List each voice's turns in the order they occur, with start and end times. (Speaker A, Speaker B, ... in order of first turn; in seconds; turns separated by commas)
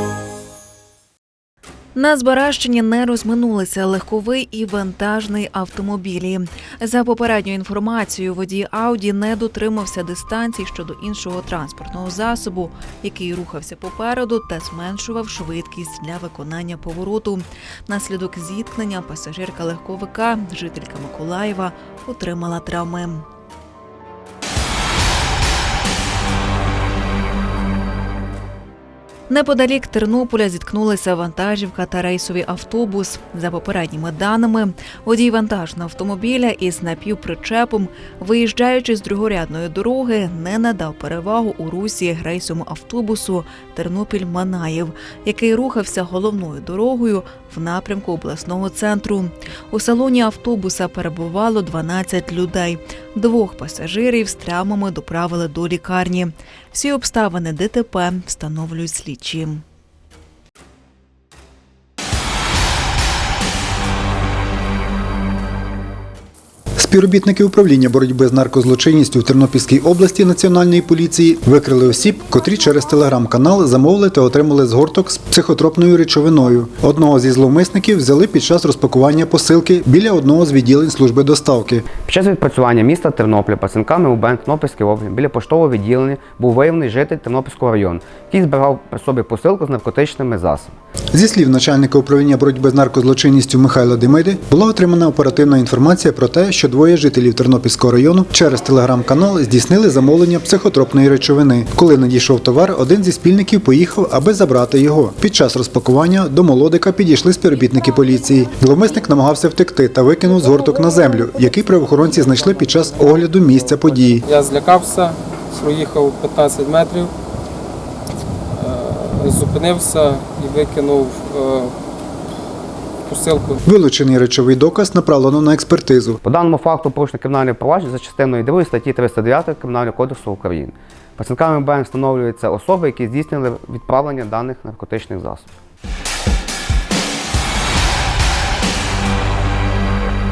Speaker A: 1.9-23.2, Speaker A: 29.3-59.6, Speaker B: 66.8-81.9, Speaker C: 82.0-90.8, Speaker B: 91.1-114.2, Speaker D: 114.3-117.1, Speaker D: 118.5-121.7, Speaker D: 123.1-123.6, Speaker B: 123.7-126.2, Speaker C: 126.2-135.5